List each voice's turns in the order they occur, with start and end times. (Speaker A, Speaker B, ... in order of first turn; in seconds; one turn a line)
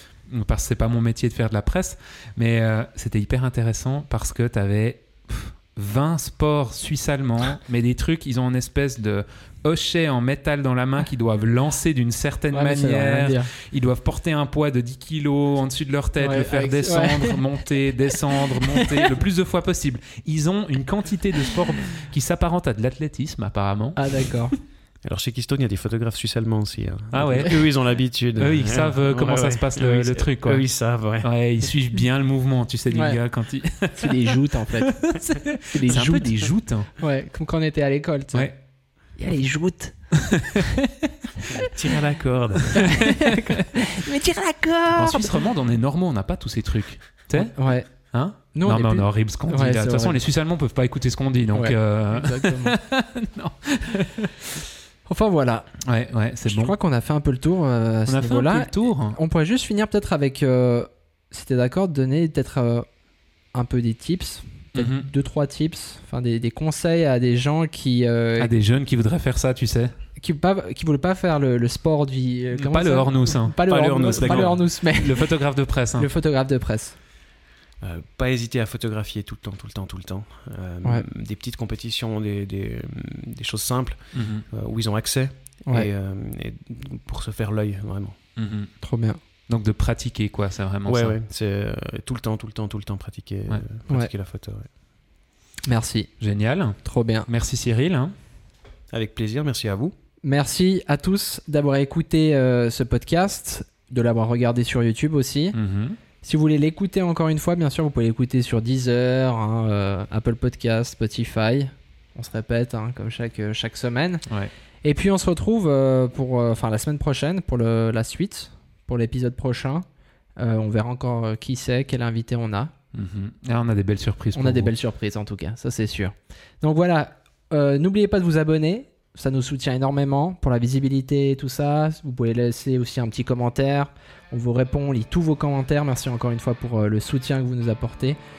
Speaker A: 0.3-24.1
Speaker B: 12.5-13.5
Speaker B: 16.2-17.4
Speaker B: 18.6-19.2
Speaker B: 24.0-24.6
Speaker C: 25.1-31.3
Speaker A: 27.1-27.7
Speaker A: 28.4-30.7
Speaker A: 31.2-36.9
Speaker B: 32.9-33.2
Speaker B: 34.0-38.5
Speaker B: 39.2-40.0
Speaker A: 40.2-40.7
Speaker C: 41.5-43.1
Speaker A: 42.7-43.3
Speaker B: 42.8-45.4
Speaker A: 44.9-54.6
Speaker B: 47.3-47.9
Speaker B: 48.5-50.2
Speaker B: 51.5-52.7
Speaker B: 55.1-55.8
Speaker A: 55.8-56.7
Speaker B: 56.5-62.9
Speaker A: 58.1-59.2
Speaker B: 63.5-68.5
Speaker A: 64.8-65.1
Speaker A: 68.4-69.9
Speaker B: 70.2-75.4
Speaker A: 72.5-76.1
Speaker C: 73.7-74.6
Speaker B: 76.0-77.0
Speaker C: 77.8-84.0
Speaker A: 84.1-84.5
Speaker C: 84.5-88.2
Speaker A: 88.4-88.7
Speaker B: 88.8-89.2
Speaker A: 89.5-91.2
Speaker C: 90.9-94.7
Speaker B: 95.7-96.1
Speaker A: 96.2-98.1
Speaker B: 96.8-97.3
Speaker C: 98.9-99.9
Speaker B: 100.2-105.6
Speaker A: 105.5-106.0
Speaker B: 106.2-114.3
Speaker B: 114.8-119.8
Speaker B: 120.4-122.7
Speaker A: 122.9-124.7
Speaker B: 124.3-138.2